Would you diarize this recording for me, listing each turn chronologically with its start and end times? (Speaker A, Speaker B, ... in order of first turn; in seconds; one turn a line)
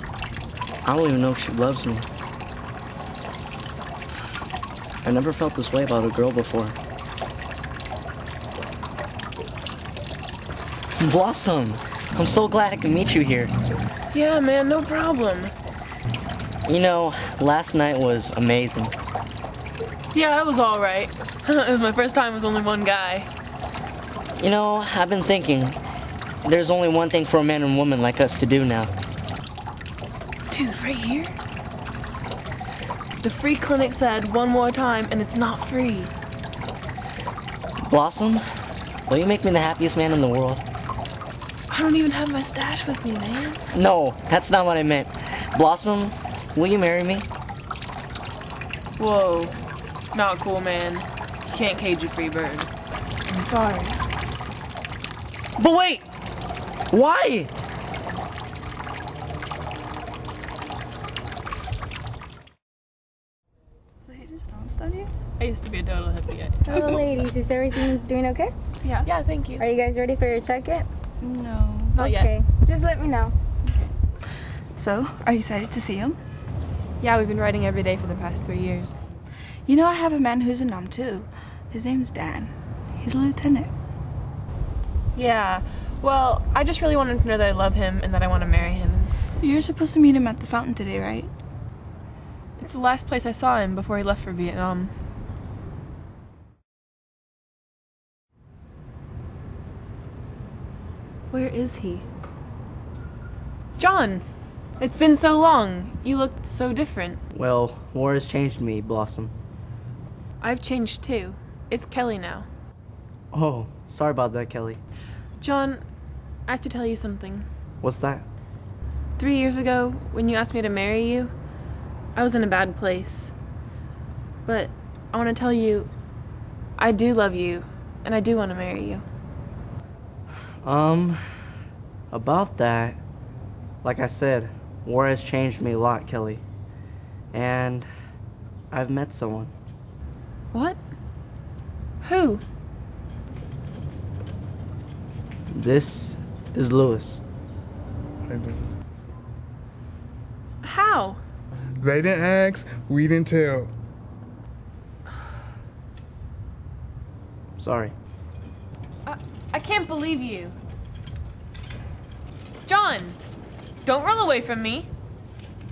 Speaker A: 0.8-2.1
Speaker A: 5.0-6.8
Speaker A: 11.0-13.5
Speaker B: 14.1-15.5
Speaker A: 16.6-18.9
Speaker B: 20.1-23.3
Speaker A: 24.4-25.8
Speaker A: 26.4-28.9
Speaker B: 30.5-31.4
Speaker B: 33.2-36.1
Speaker A: 37.9-38.4
Speaker A: 39.1-40.6
Speaker B: 41.7-43.6
Speaker A: 43.7-47.3
Speaker B: 49.0-49.5
Speaker B: 50.1-52.7
Speaker B: 53.3-54.0
Speaker A: 55.6-56.0
Speaker A: 56.9-57.5
Speaker C: 64.1-65.1
Speaker B: 65.4-67.1
Speaker D: 66.7-68.5
Speaker B: 68.8-69.6
Speaker D: 69.6-70.9
Speaker C: 71.2-72.0
Speaker B: 71.9-72.3
Speaker D: 72.0-73.3
Speaker C: 74.8-76.2
Speaker B: 77.0-79.0
Speaker C: 79.7-83.7
Speaker B: 85.1-89.1
Speaker C: 89.4-91.3
Speaker B: 92.6-94.9
Speaker B: 101.3-102.0
Speaker B: 103.8-104.2
Speaker B: 104.8-107.2
Speaker A: 107.3-109.3
Speaker B: 110.4-112.5
Speaker A: 113.3-114.8
Speaker B: 115.4-115.8
Speaker B: 116.5-117.5
Speaker A: 117.8-118.2
Speaker B: 119.2-121.3
Speaker B: 122.2-123.3
Speaker B: 124.5-125.9
Speaker B: 126.8-129.0
Speaker A: 130.6-131.4
Speaker A: 132.1-133.0
Speaker A: 133.8-136.4
Speaker A: 137.3-137.9
Speaker A: 138.7-139.5
Speaker B: 140.5-140.8
Speaker B: 142.0-142.4
Speaker A: 145.5-147.2
Speaker E: 148.3-148.6
Speaker B: 150.6-151.2
Speaker E: 151.8-153.7
Speaker A: 157.6-157.9
Speaker B: 159.1-160.6
Speaker B: 162.7-163.2
Speaker B: 163.8-164.9